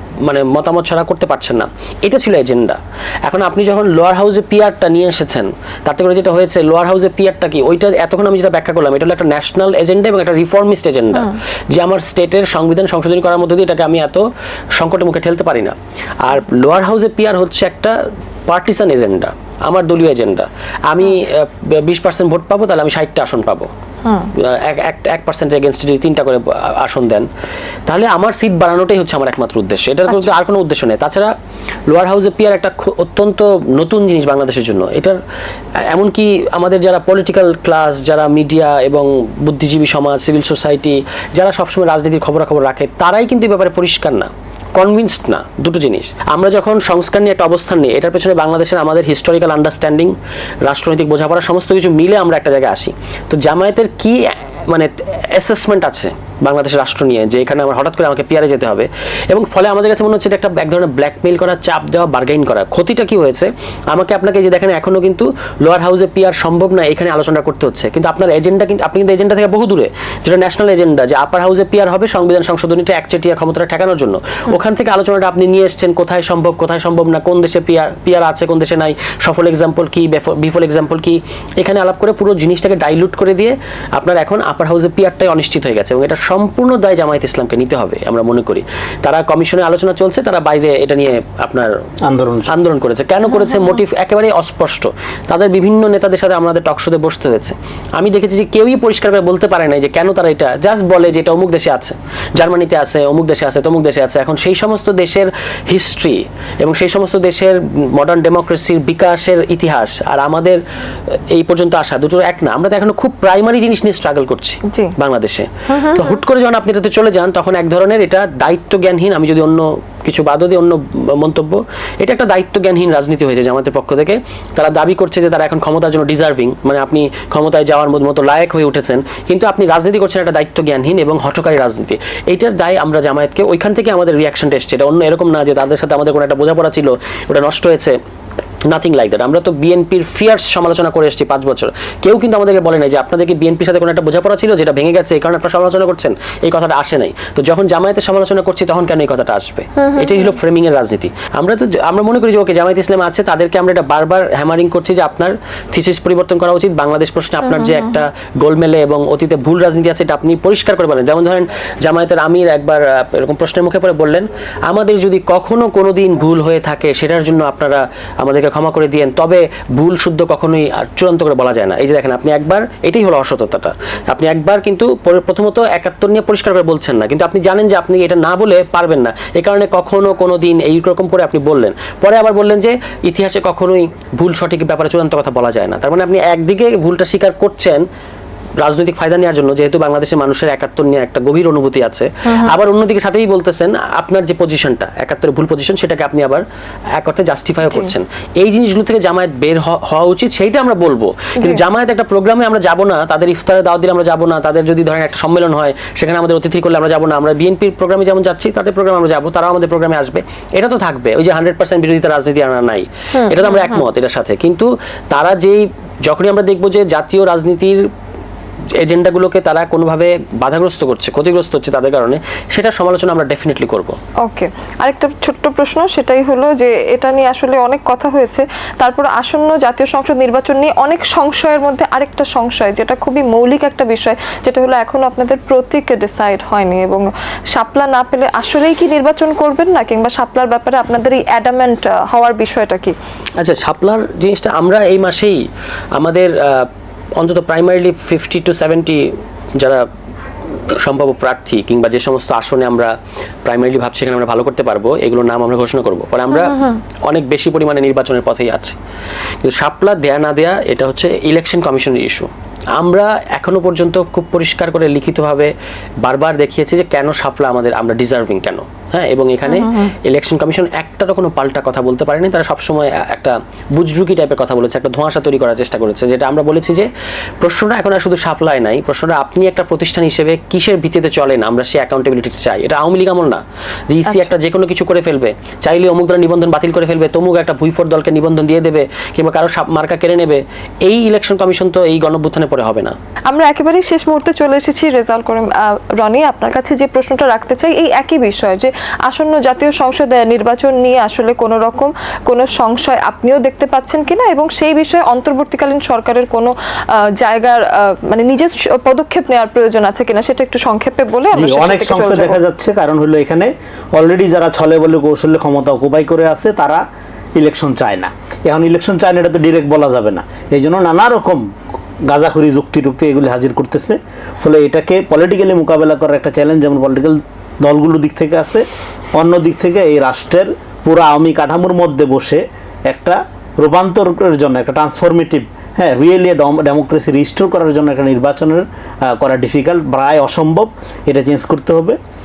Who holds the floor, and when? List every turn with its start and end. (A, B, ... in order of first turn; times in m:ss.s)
0:00.2-0:14.3 A
0:14.8-0:23.7 A
0:24.3-0:27.3 A
0:27.9-0:31.3 A
0:31.9-0:35.2 A
0:35.8-1:31.8 A
1:32.0-1:32.6 B
1:32.5-2:18.0 A
1:54.7-1:54.9 C
1:55.7-1:56.0 C
2:18.7-3:07.9 A
2:29.8-2:30.2 C
3:08.6-3:16.4 A
3:17.0-3:37.9 A
3:33.2-3:33.8 C
3:38.8-3:44.0 A
3:44.2-4:03.0 C
4:03.4-4:05.4 A
4:06.0-4:09.9 A
4:10.7-4:12.9 A
4:13.4-4:18.8 A
4:16.5-4:16.8 C
4:19.4-4:36.9 A
4:29.5-4:29.9 C
4:37.4-4:53.0 A
4:53.3-5:12.4 C
5:11.3-5:16.8 B
5:17.4-5:21.4 B
5:22.1-5:28.6 B
5:29.2-5:42.0 B